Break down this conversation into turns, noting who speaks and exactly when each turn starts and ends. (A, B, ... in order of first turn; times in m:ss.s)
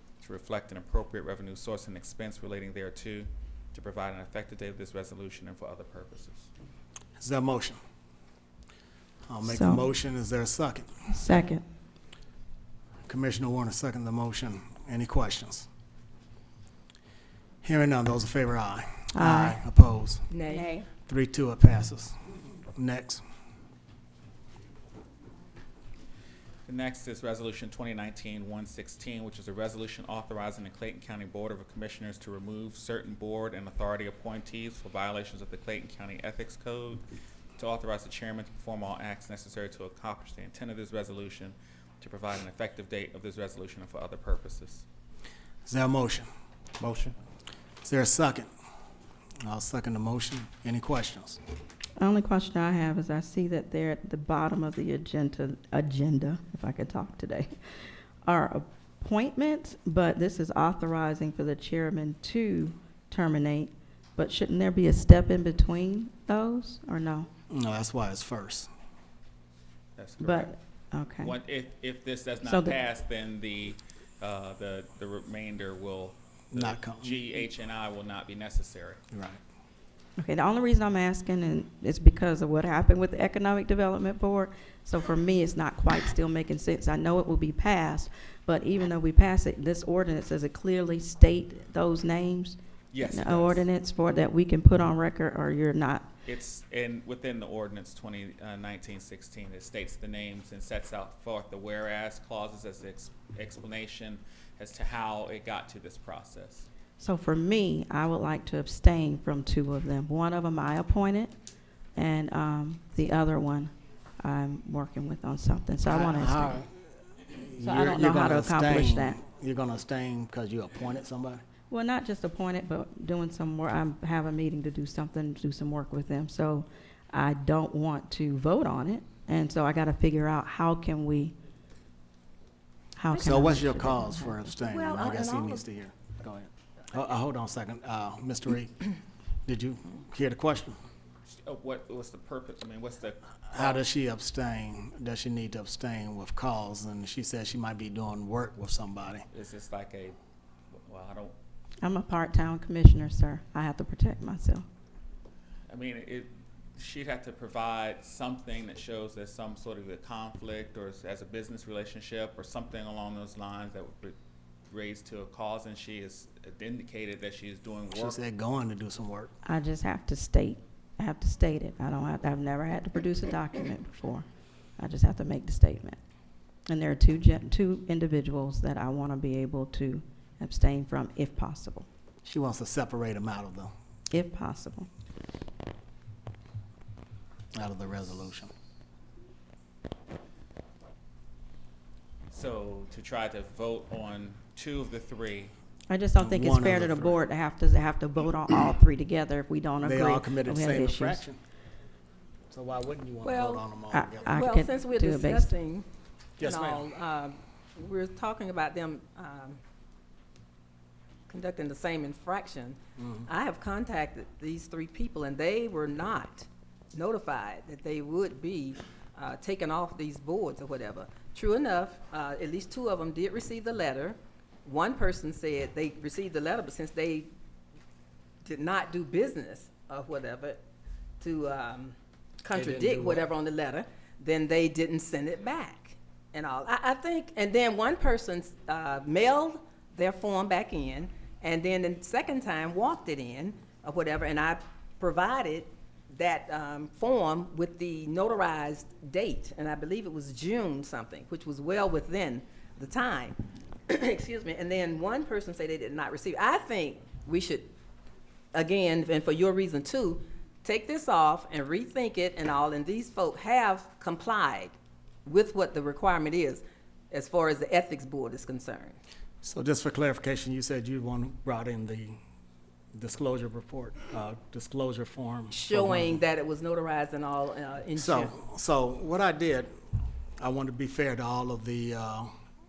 0:00.2-0:06.5 A
0:07.2-0:07.8 B
0:09.3-0:11.1 B
0:09.4-0:09.8 C
0:11.1-0:11.6 C
0:13.1-0:15.7 B
0:17.6-0:20.2 B
0:19.1-0:19.6 C
0:20.3-0:20.9 D
0:20.5-0:20.8 C
0:21.1-0:22.2 B
0:22.7-0:23.2 B
0:26.6-0:37.0 A
0:37.6-0:44.8 A
0:45.6-0:46.3 B
0:46.8-0:47.1 A
0:47.8-0:48.5 B
0:49.4-0:51.4 B
0:52.0-0:57.5 C
0:58.2-1:07.3 C
1:07.5-1:08.7 B
1:10.0-1:10.5 A
1:10.2-1:11.3 C
1:11.2-1:19.0 A
1:12.4-1:12.8 C
1:16.5-1:17.2 B
1:19.1-1:19.4 B
1:20.2-1:36.1 C
1:32.9-1:33.6 A
1:36.2-1:46.7 A
1:47.0-1:51.3 C
1:52.0-1:56.6 C
1:55.8-1:56.7 B
1:57.3-2:01.4 B
1:57.6-1:59.2 C
2:01.7-2:11.4 C
2:13.0-2:14.4 C
2:13.1-2:18.8 B
2:14.6-2:15.6 D
2:19.4-2:20.8 B
2:21.3-2:23.8 A
2:23.5-2:29.3 B
2:29.3-2:30.2 A
2:30.7-2:31.3 A
2:31.8-2:34.6 C
2:35.7-2:44.2 A
2:44.7-2:48.2 A
2:47.9-2:49.3 B
2:49.4-2:54.2 C
2:54.8-2:56.0 C
2:56.7-3:01.9 C
3:02.2-3:03.7 B
3:04.1-3:04.9 C
3:07.6-3:08.5 B
3:12.3-3:15.5 A
3:15.9-3:21.2 C
3:16.2-3:17.2 B
3:19.8-3:21.4 B
3:22.5-3:24.3 B
3:23.2-3:23.6 D
3:23.9-3:25.5 C
3:24.2-3:25.9 D
3:26.4-3:26.9 B
3:26.4-3:29.6 D
3:31.3-3:47.3 D
3:33.0-3:33.3 B
3:48.4-3:50.6 D
3:51.2-4:17.7 D
3:52.5-3:53.2 B
4:18.5-4:24.7 D
4:25.2-4:29.0 D
4:29.4-4:32.2 B
4:32.9-4:36.2 B
4:35.5-4:38.3 D
4:38.0-4:39.7 B
4:40.4-4:42.3 B